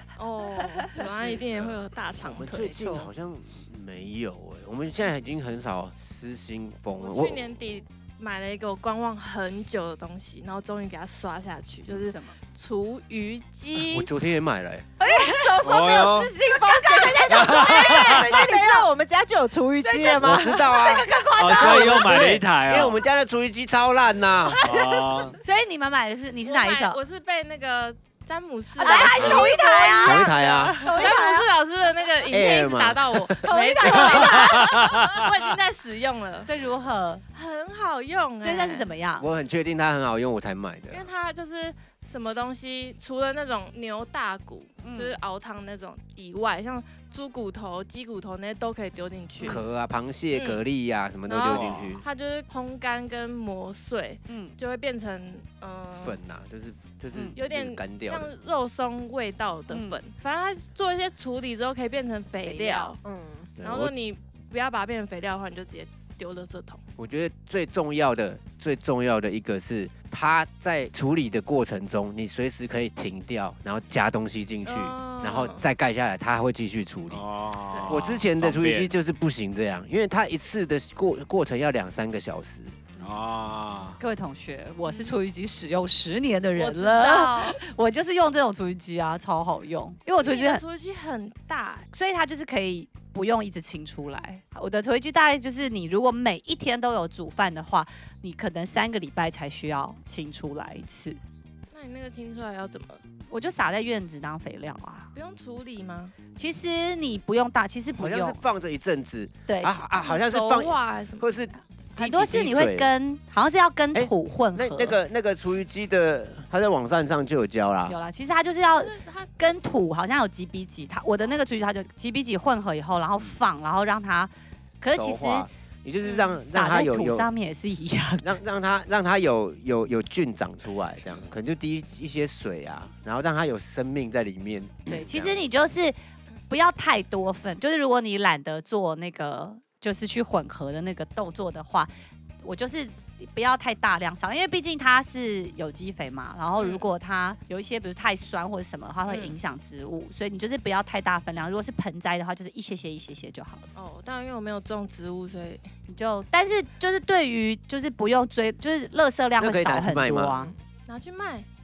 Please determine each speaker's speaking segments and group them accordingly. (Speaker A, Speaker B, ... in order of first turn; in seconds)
Speaker A: 0.2-3.1, 7.0-14.1, 26.4-36.5, 37.3-38.9, 40.9-49.6, 50.3-50.6, 51.3-56.2, 57.4-63.0, 63.6-66.8, 74.6-75.7, 84.8-85.2, 86.6-87.6, 90.2-91.9, 101.7-103.0, 105.1-106.1, 110.0-111.3, 118.7-119.3, 126.0-126.4, 146.6-146.9, 149.1-149.4, 153.8-155.7, 160.9-161.5
Speaker B: 1.3-7.5, 13.8-14.9, 20.2-24.6, 29.2-29.5, 30.0-30.8, 32.3-33.6, 39.2-41.1, 49.4-52.0, 56.0-58.3, 63.6-63.9, 67.0-77.2, 77.8-82.8, 108.0-112.9, 113.9-118.0, 124.9-127.3, 128.2-135.4, 159.4-160.5
Speaker C: 11.9-12.4, 15.0-15.6, 16.4-18.9, 19.8-22.4, 25.4-27.0, 28.8-31.5, 33.5-34.6, 36.4-37.2, 38.4-39.3, 44.8-45.1, 54.3-54.5, 59.7-60.0, 84.0-90.6, 91.9-101.2, 103.3-105.1, 106.3-108.4, 109.5-109.8, 112.0-115.0, 117.9-125.5, 126.4-128.3, 134.9-136.0, 136.5-153.6, 155.9-160.5
Speaker D: 15.0-20.7, 24.7-25.1, 62.5-63.5
Speaker E: 15.6-16.3, 17.3-18.3, 21.4-23.0, 24.6-25.4, 34.1-35.3, 51.5-52.0, 77.1-79.0, 83.0-84.0